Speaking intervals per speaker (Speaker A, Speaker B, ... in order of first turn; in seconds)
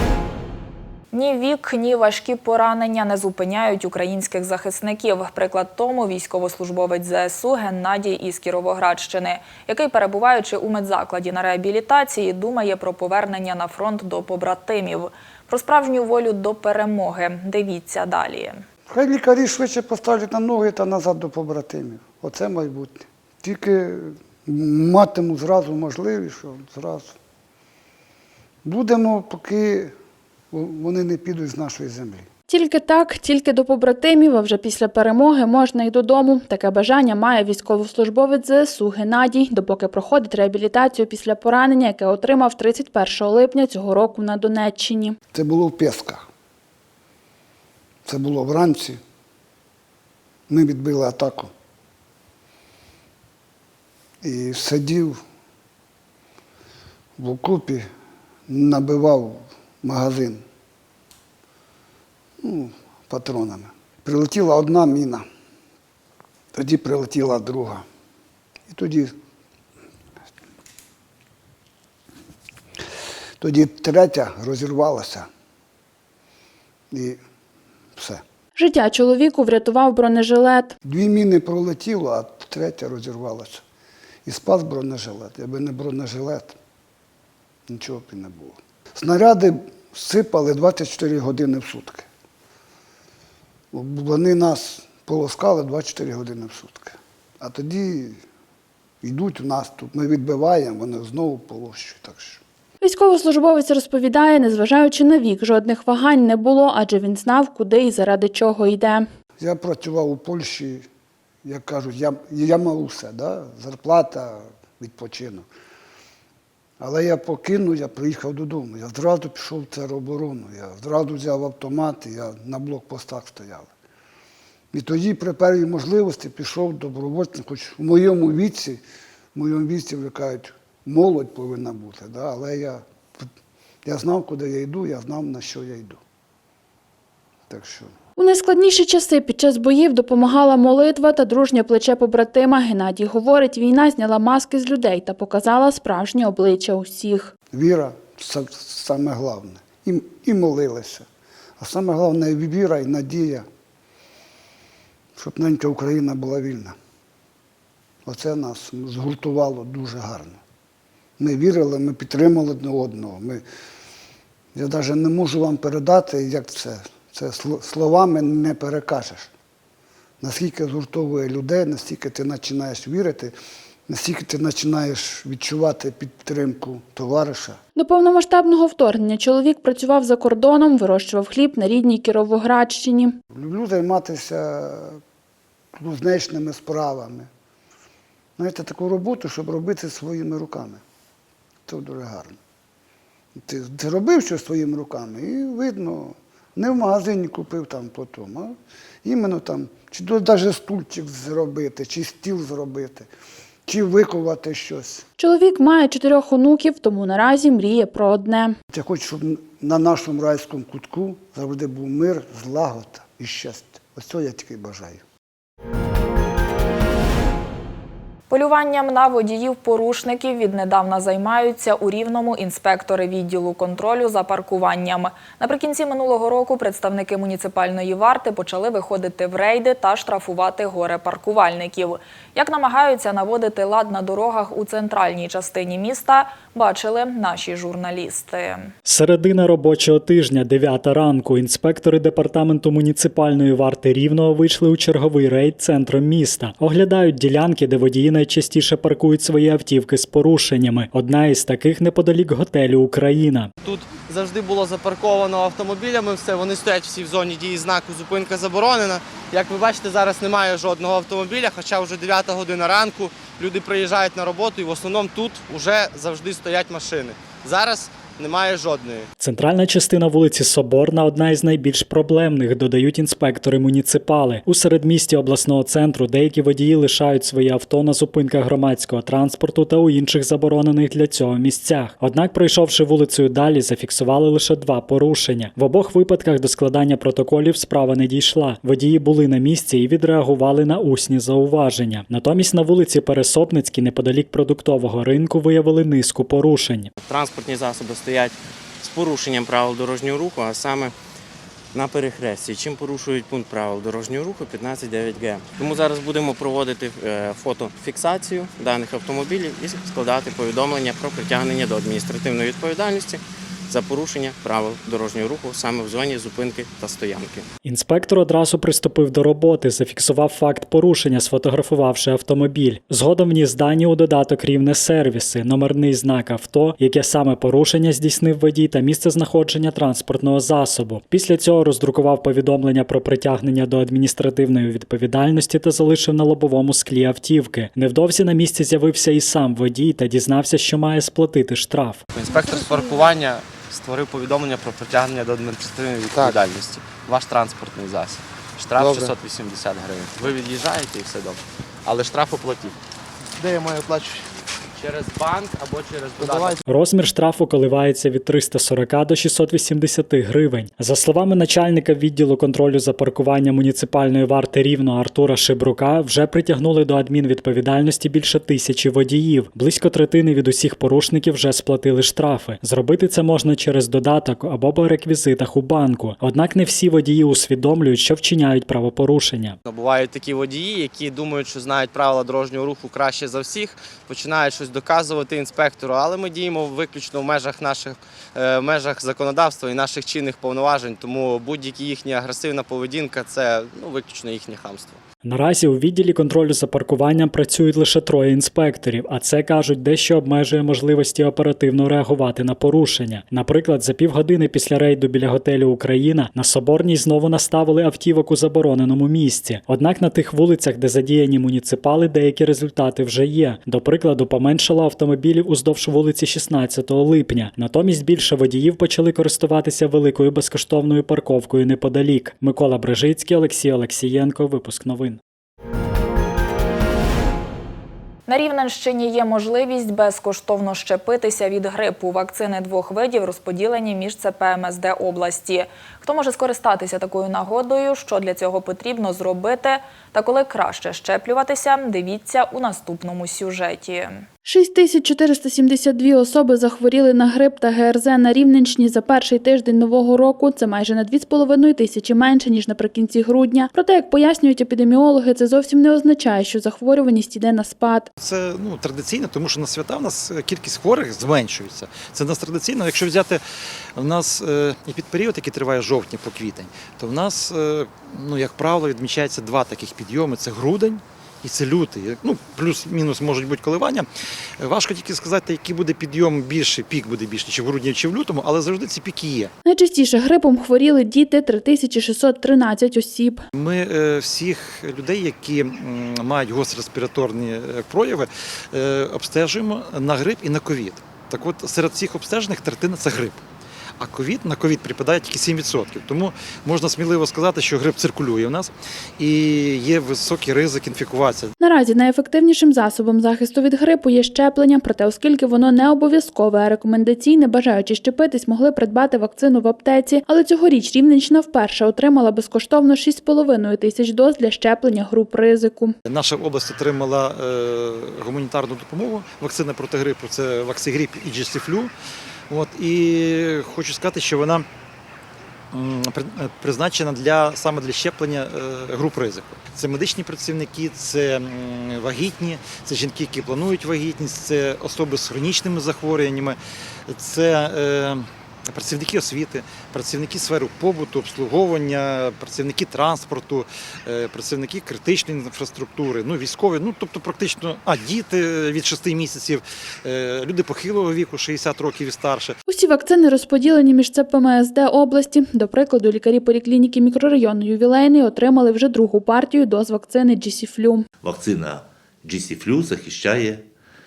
Speaker A: 1.1-18.6, 218.3-238.7, 428.3-444.3
Speaker B: 18.9-27.1, 28.6-29.9, 30.5-32.3, 45.3-46.2, 48.0-49.0, 50.5-51.5, 54.2-55.2, 57.2-57.9, 58.5-60.4, 62.4-65.2, 66.5-67.8, 68.7-69.1, 73.4-75.3, 76.9-77.2, 78.0-78.2, 80.8-83.6, 84.2-86.6, 87.7-92.1, 93.7-98.2, 99.0-102.4, 109.4-110.9, 111.4-115.5, 116.8-123.7, 124.7-128.8, 129.3-133.3, 133.8-136.0, 137.5-137.9, 147.5-151.1, 151.6-153.4, 155.2-156.7, 158.0-160.4, 161.2-163.4, 164.5-169.3, 170.2-173.3, 173.9-177.6, 183.3-185.0, 185.7-187.3, 188.4-190.8, 191.7-192.4, 193.3-203.1, 203.7-205.0, 208.7-215.0
Speaker C: 32.5-45.2, 78.5-80.7, 102.8-109.0, 138.2-147.3, 177.8-183.2, 205.2-208.6, 444.4-458.1, 479.6-483.4, 501.6-515.9, 552.7-561.0
Speaker D: 238.8-253.5, 269.2-296.9, 317.6-342.0, 356.7-379.6, 395.2-425.2
Speaker E: 253.6-269.1, 342.1-352.7, 353.4-354.2, 354.8-356.6, 379.6-395.0
Speaker F: 297.0-300.9, 301.7-317.4, 346.8-347.1, 348.8-349.1, 356.2-356.5
Speaker G: 458.2-463.4, 463.9-474.1, 474.6-479.5, 483.5-493.4, 494.0-501.5, 516.0-521.9, 522.5-524.6, 525.7-552.6
Speaker H: 561.2-563.6